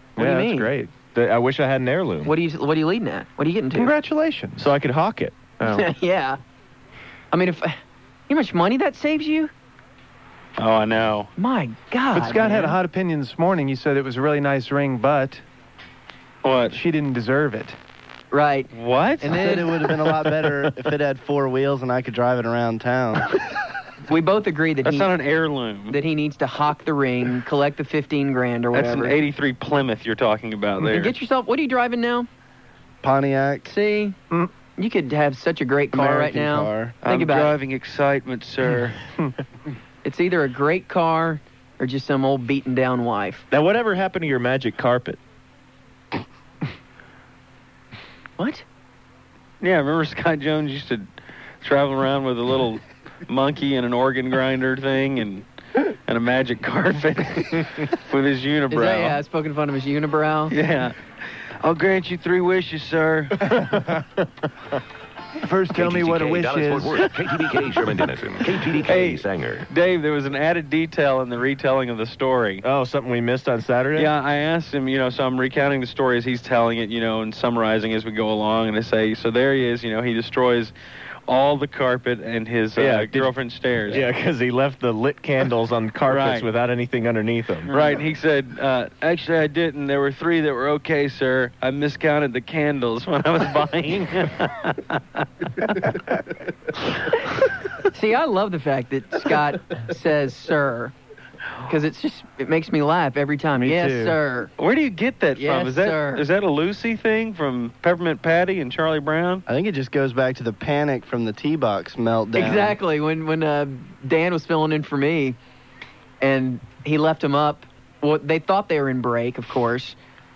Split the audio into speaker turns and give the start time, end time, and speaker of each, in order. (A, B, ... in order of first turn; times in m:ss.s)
0:00.2-0:00.7 A
0:00.2-0:00.9 B
0:01.1-0:02.3 C
0:02.2-0:03.9 A
0:03.8-0:04.6 B
0:04.6-0:05.4 C
0:05.6-0:05.9 B
0:05.6-0:06.4 A
0:07.3-0:07.8 A
0:08.3-0:09.5 A
0:10.6-0:11.3 D
0:11.4-0:12.8 A
0:12.1-0:15.4 B
0:16.4-0:16.8 D
0:16.7-0:17.8 B
0:18.3-0:20.0 A
0:18.7-0:19.4 D
0:19.3-0:23.3 E
0:24.1-0:25.1 A
0:24.8-0:26.0 D
0:25.9-0:29.2 A
0:28.7-0:31.1 D
0:30.8-0:32.3 A
0:33.0-0:33.7 E
0:33.7-0:34.2 A
0:34.8-0:37.5 A
0:35.9-0:37.0 E
0:37.0-0:39.0 D
0:40.0-0:43.5 A
0:43.5-0:45.2 C
0:48.4-0:48.6 A
0:49.6-0:51.1 D
0:51.6-0:55.4 D
0:56.1-0:59.2 D
0:58.7-1:00.6 A
1:00.5-1:01.0 D
1:01.6-1:03.4 D
1:03.5-1:04.0 B
1:05.4-1:07.1 B
1:05.7-1:09.7 F
1:08.9-1:12.6 D
1:12.6-1:14.1 C
1:14.0-1:20.7 D
1:21.3-1:24.1 D
1:22.8-1:23.3 C
1:23.9-1:27.7 C
1:26.1-1:26.5 D
1:27.7-1:35.2 D
1:37.9-1:40.9 A
1:41.7-1:44.5 A
1:43.6-1:44.2 B
1:44.6-1:49.4 D
1:45.4-1:46.2 A
1:49.5-1:52.8 E
1:52.4-1:55.4 A
1:56.2-2:00.0 A